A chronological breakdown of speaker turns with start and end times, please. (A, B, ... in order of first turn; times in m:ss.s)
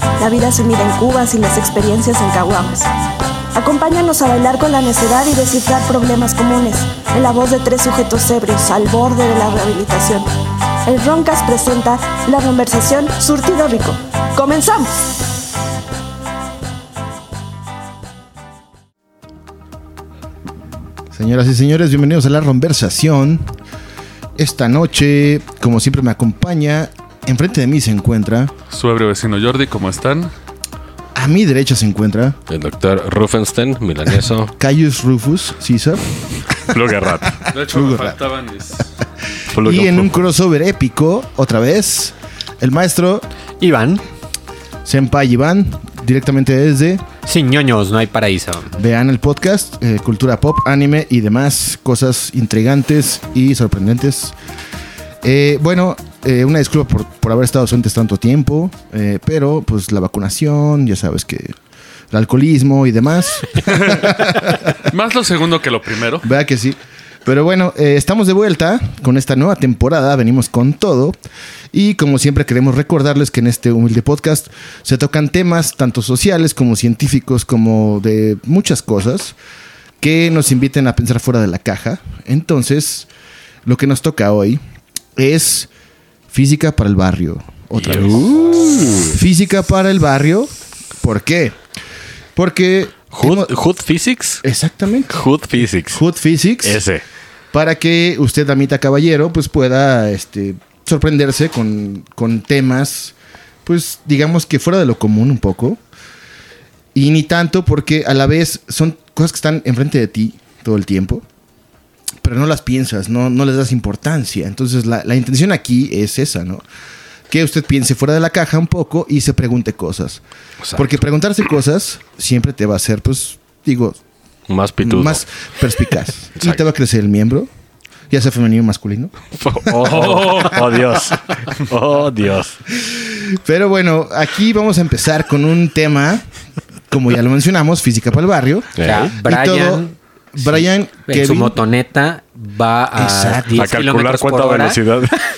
0:00.2-0:02.9 A
0:03.6-0:10.3 A
0:10.9-0:15.0 A
0:21.1-0:23.5 B
0:24.4-0:28.5 B
0:28.7-0:30.3 C
0:31.2-0:32.4 B
0:32.5-0:34.5 D
0:34.6-0:38.2 B
0:36.7-0:37.4 D
0:37.5-0:38.9 C
0:39.5-0:40.2 D
0:39.5-0:43.3 B
0:43.6-0:44.0 E
0:44.8-0:47.0 B
0:47.2-0:48.7 E
0:48.8-0:54.4 B
0:55.2-1:01.6 B
1:02.1-1:04.9 B
1:04.8-1:06.3 C
1:06.2-1:11.2 B
1:11.7-1:19.4 B
1:20.0-1:23.1 B
1:23.7-1:24.6 B
1:25.2-1:25.7 B
1:26.3-1:31.6 B
1:27.8-1:29.2 D
1:32.4-1:33.5 B
1:33.1-1:34.4 D
1:34.4-1:35.2 B
1:35.1-1:36.0 D
1:35.9-1:36.8 B
1:36.6-1:37.0 D
1:37.5-1:45.8 B
1:46.9-1:51.2 B
1:52.2-1:56.6 B
1:57.3-2:00.2 B
2:00.6-2:01.0 D
2:00.8-2:04.0 B
2:04.5-2:05.2 D
2:04.8-2:07.5 B
2:06.4-2:06.6 D
2:08.1-2:11.2 B
2:09.4-2:12.6 D
2:09.8-2:10.6 C
2:12.7-2:16.2 B
2:16.9-2:21.6 B
2:18.8-2:19.1 D
2:18.8-2:24.8 E
2:23.0-2:23.7 B
2:23.5-2:25.1 D